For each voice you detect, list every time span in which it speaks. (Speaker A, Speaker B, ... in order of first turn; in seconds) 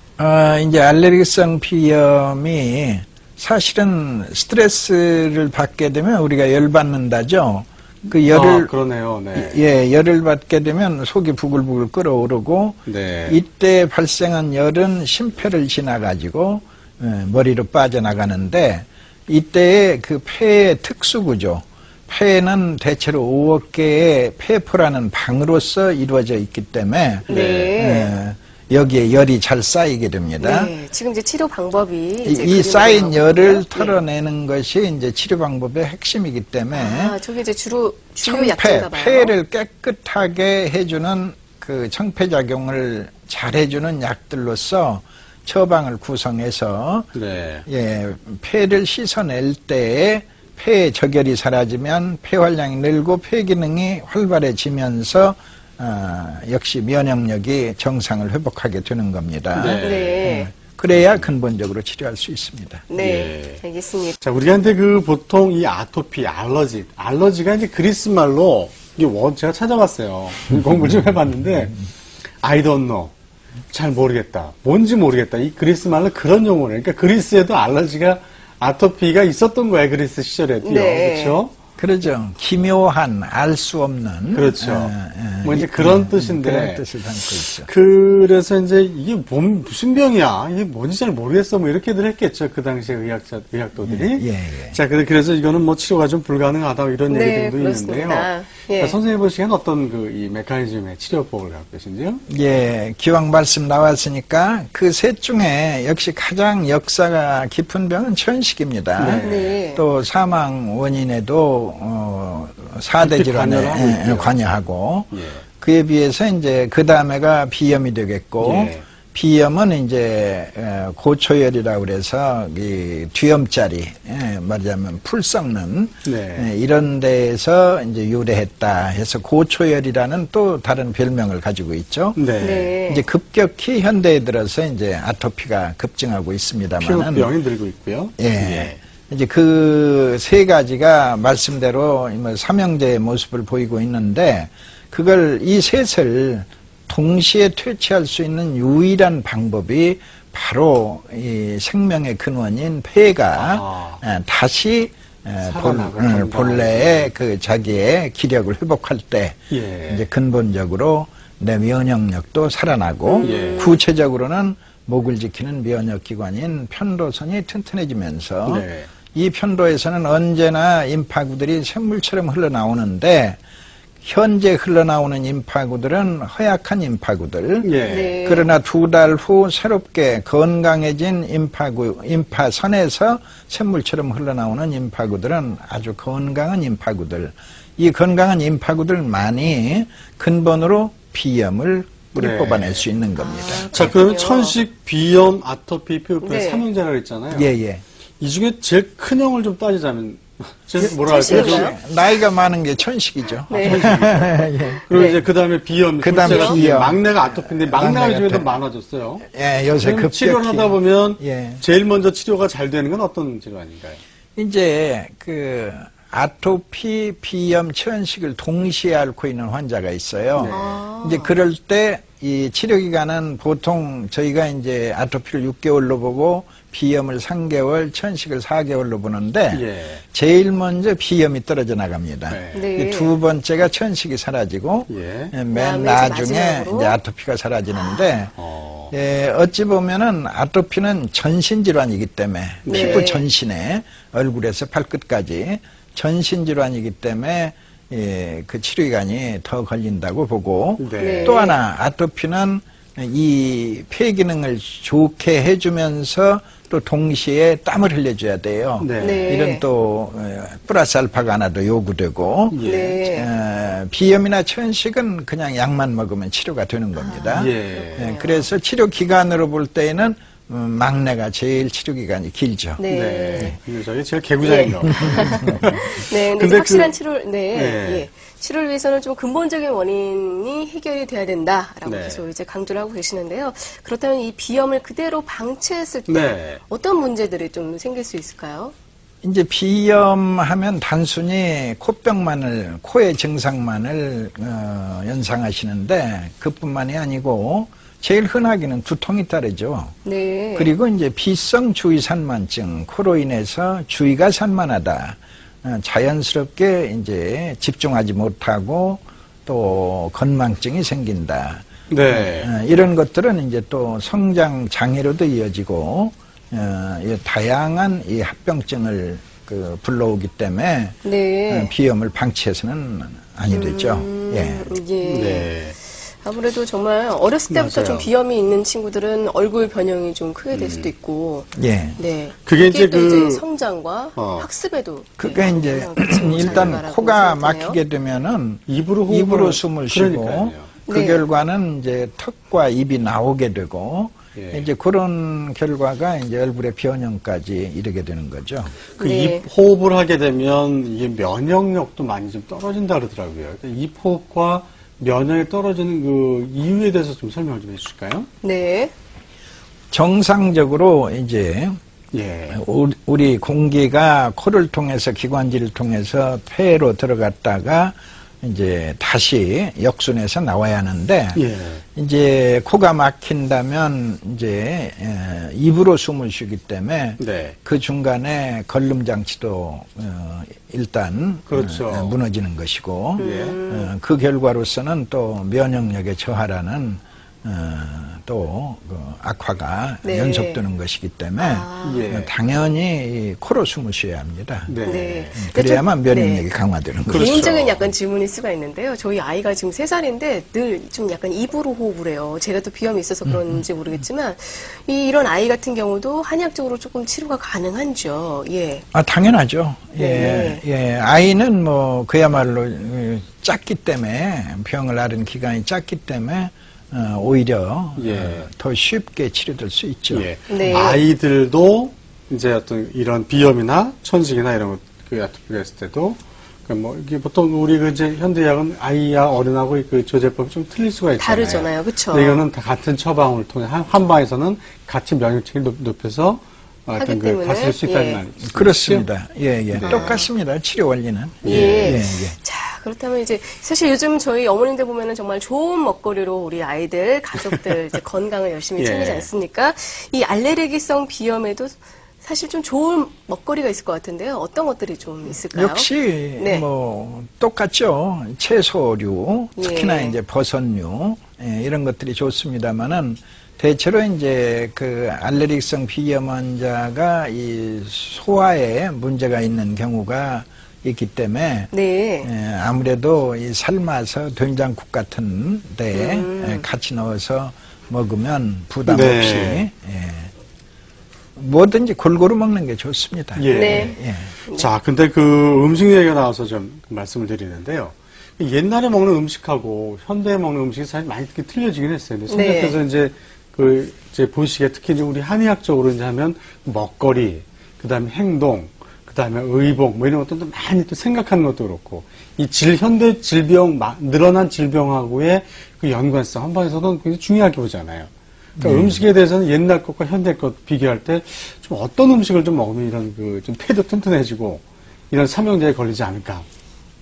Speaker A: 0.2-8.7, 9.3-30.7, 32.2-37.2, 38.2-47.1, 47.7-62.9, 81.8-87.7, 93.8-94.8, 102.3-132.2, 132.8-137.3, 138.2-173.4, 174.0-193.9, 197.3-197.8, 201.1-204.9, 206.0-208.5, 209.2-211.6, 214.3-238.3, 238.9-272.8, 275.0-275.6, 289.2-299.9, 300.6-320.9, 321.5-324.8, 331.6-332.0, 335.2-348.8, 359.9-361.8, 362.5-371.4, 371.9-394.7, 395.4-397.4, 403.2-403.6, 408.9-420.3, 438.5-442.4, 455.5-480.3, 481.4-484.3, 508.6-509.0
Speaker B: 8.2-9.6, 12.9-13.4, 27.3-27.8, 47.1-47.6, 59.5-60.4, 63.0-63.6, 64.2-71.8, 72.4-73.1, 73.7-81.5, 84.3-86.8, 87.5-102.2, 109.0-109.5, 113.0-114.3, 115.1-115.4, 118.4-118.9, 126.0-126.5, 132.2-132.7, 136.8-138.8, 153.3-154.0, 155.4-157.1, 159.5-160.0, 163.2-163.7, 168.4-168.9, 177.6-178.2, 192.2-192.8, 193.7-197.5, 198.2-201.7, 203.5-209.3, 209.8-214.0, 220.3-220.8, 229.5-230.0, 232.3-232.7, 234.9-235.3, 238.3-238.9, 242.6-243.1, 250.8-251.4, 258.8-259.4, 262.5-263.0, 267.3-268.1, 272.9-276.9, 277.5-278.1, 281.8-282.2, 286.1-286.6, 311.9-312.5, 325.0-325.8, 327.5-328.1, 330.5-330.9, 332.4-333.4, 334.1-334.5, 338.7-340.7, 344.4-344.7, 348.9-358.3, 362.1-362.6, 371.3-371.8, 377.2-377.6, 381.5-382.1, 383.2-383.6, 391.8-392.3, 394.7-395.4, 397.1-397.9, 418.0-418.5, 420.1-439.1, 439.7-440.2, 441.4-442.0, 448.8-449.3, 478.9-479.7, 483.4-484.0, 484.5-516.5
Speaker C: 27.3-28.1, 30.4-34.0, 36.7-39.3, 59.8-60.5, 62.9-64.2, 80.6-81.4, 97.1-99.0, 109.2-109.8, 132.4-133.0, 163.1-163.8, 177.9-178.5, 193.2-194.6, 196.2-196.6, 200.8-201.8, 203.5-203.9, 204.9-205.2, 206.2-206.6, 220.5-221.3, 232.5-233.1, 235.5-237.0, 237.7-238.0, 242.7-243.2, 251.0-251.6, 259.0-259.6, 262.6-263.3, 266.9-268.5, 272.8-273.6, 274.4-288.7, 300.0-300.7, 321.0-321.7, 323.5-325.5, 326.1-337.8, 340.9-341.2, 349.0-349.4, 358.4-358.9, 383.2-383.9, 390.0-390.6, 391.4-392.1, 394.8-396.4, 397.1-408.8, 410.0-410.6, 420.5-421.0, 431.2-432.4, 437.0-438.2, 439.8-440.3, 441.4-456.6, 459.6-460.1, 471.7-472.3, 475.9-476.6, 483.5-484.7, 492.3-492.8